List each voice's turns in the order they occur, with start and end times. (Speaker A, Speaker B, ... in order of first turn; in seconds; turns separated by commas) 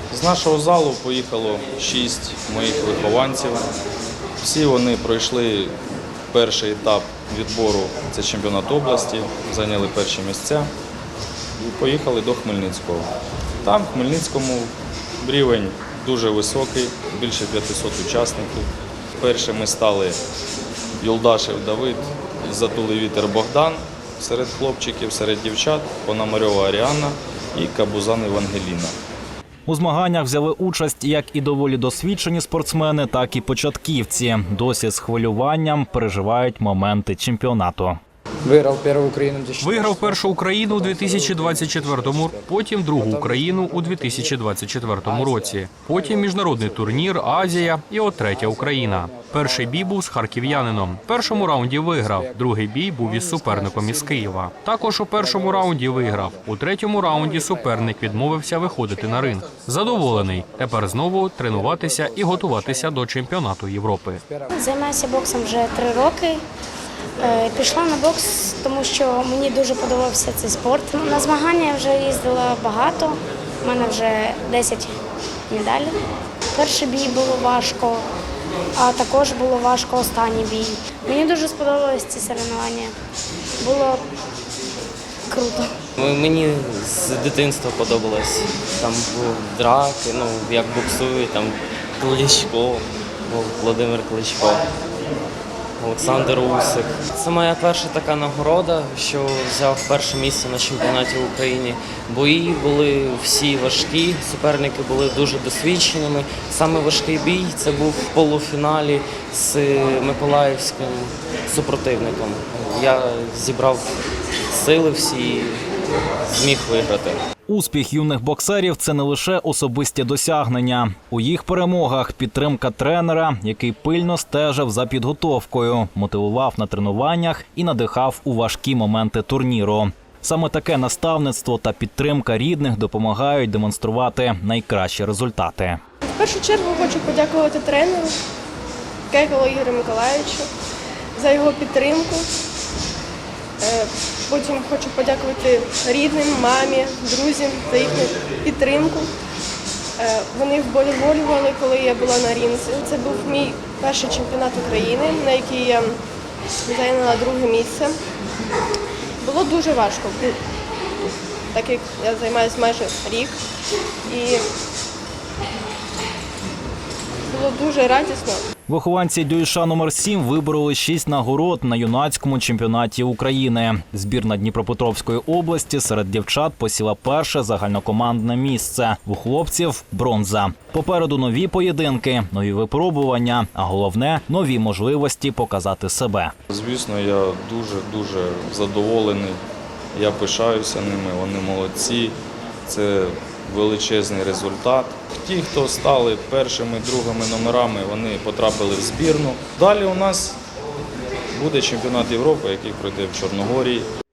Speaker A: 0.1-3.7, Speaker A: 4.4-5.7, Speaker A: 6.3-10.7, Speaker A: 11.6-13.1, Speaker A: 13.6-18.6, Speaker A: 19.2-20.2, Speaker A: 21.0-28.9, Speaker B: 29.7-38.0, Speaker C: 38.4-44.4, Speaker D: 39.6-64.2, Speaker C: 45.0-47.7, Speaker C: 48.3-49.7, Speaker C: 52.0-52.3, Speaker C: 53.1-54.3, Speaker C: 55.2-56.5, Speaker C: 57.1-58.2, Speaker C: 59.1-63.1, Speaker C: 64.2-64.5, Speaker E: 64.5-66.4, Speaker E: 67.2-74.9, Speaker E: 75.5-76.0, Speaker E: 76.5-78.1, Speaker E: 78.8-82.9, Speaker E: 83.6-84.0, Speaker E: 85.3-85.7, Speaker F: 86.0-94.6, Speaker F: 95.8-113.9, Speaker F: 114.5-115.6, Speaker F: 116.2-117.2, Speaker B: 117.5-135.8, Speaker G: 136.1-138.1, Speaker G: 139.1-140.5, Speaker G: 141.2-142.3, Speaker G: 143.6-149.1, Speaker G: 150.0-156.0, Speaker G: 156.7-157.9, Speaker G: 159.2-160.4, Speaker G: 161.5-163.4, Speaker G: 164.1-164.4, Speaker G: 167.3-168.4, Speaker B: 168.7-186.3, Speaker A: 186.5-189.4, Speaker A: 189.9-200.4, Speaker A: 201.3-203.9